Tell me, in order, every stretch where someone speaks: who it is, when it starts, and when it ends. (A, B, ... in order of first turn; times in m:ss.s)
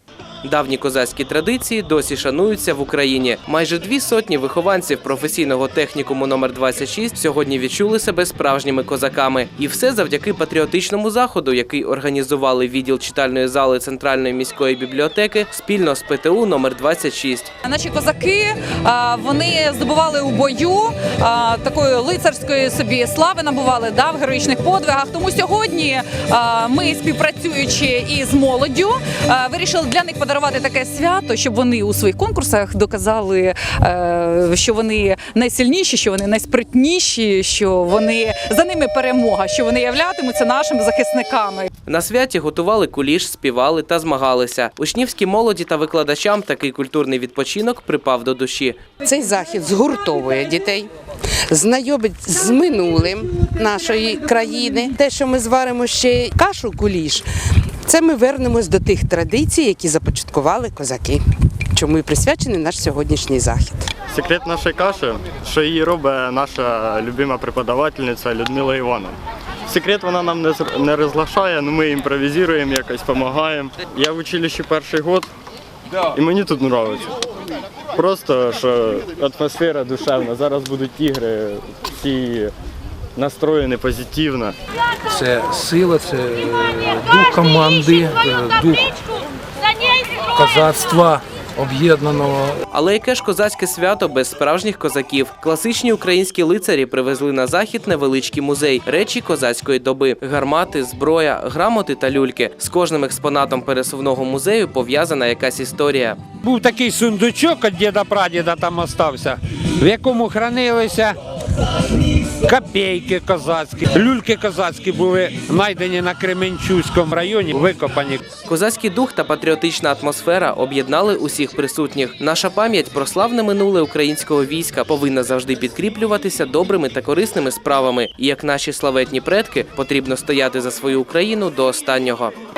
0:00.4-0:17.5 A
0:17.6-0:41.7 B
0:41.9-0:48.8 A
0:49.0-0:50.9 C
0:51.5-0:57.3 C
0:57.8-1:03.9 C
1:04.1-1:09.1 D
1:09.7-1:15.3 D
1:16.1-1:17.1 D
1:17.9-1:22.5 D
1:23.2-1:24.5 D
1:25.1-1:28.9 E
1:30.4-1:32.6 E
1:32.7-1:46.2 A
1:46.4-1:51.2 F
1:52.4-1:58.2 F
1:58.4-2:12.3 A